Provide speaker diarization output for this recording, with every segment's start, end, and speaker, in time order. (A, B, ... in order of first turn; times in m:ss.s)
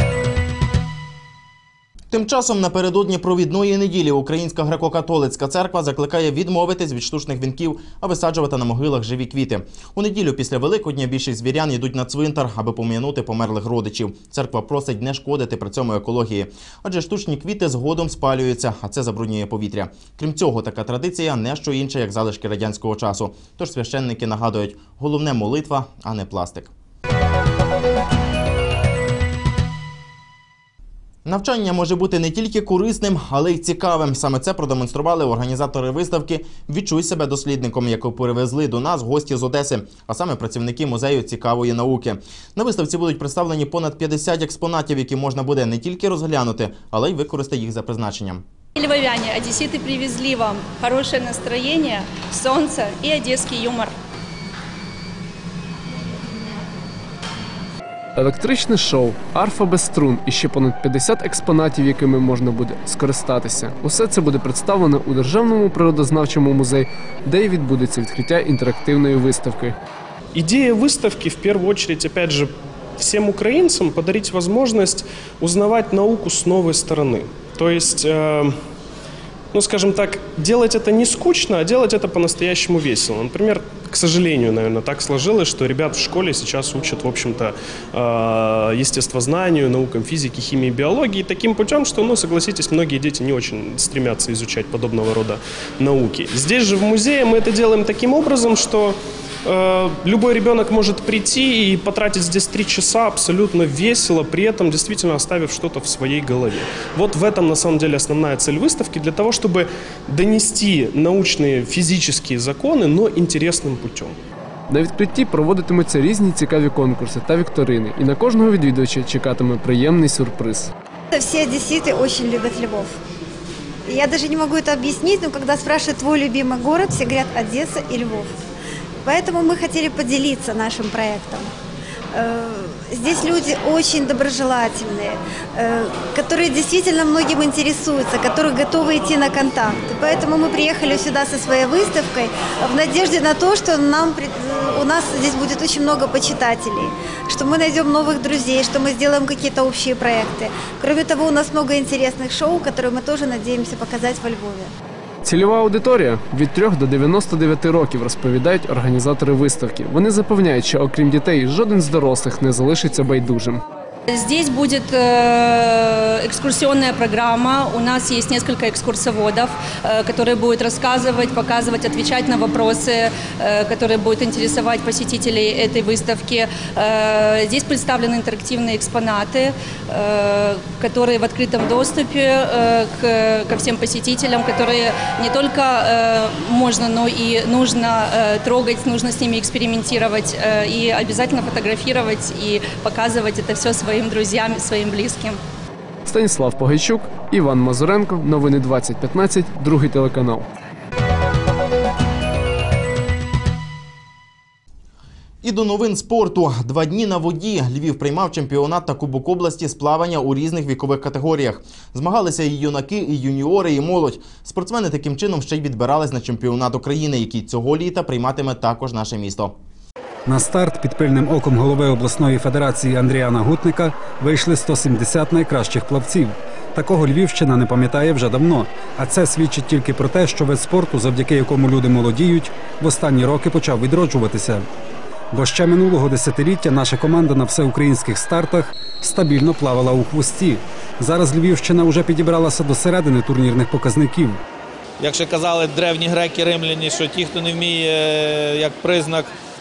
0:02.1-0:26.7 A
0:31.3-0:48.4 A
0:48.8-0:53.9 B
0:58.2-1:09.8 C
1:10.4-1:18.5 D
1:19.5-1:54.2 D
1:54.7-2:00.7 C
2:01.1-2:03.0 E
2:03.9-2:08.3 E
2:09.0-2:11.5 E
2:12.2-2:34.7 E
2:35.2-2:43.6 C
2:44.1-3:15.4 B
3:16.1-3:20.5 C
3:25.4-3:39.6 A
3:40.3-3:54.6 F
3:55.3-4:04.4 F
4:05.0-4:09.3 G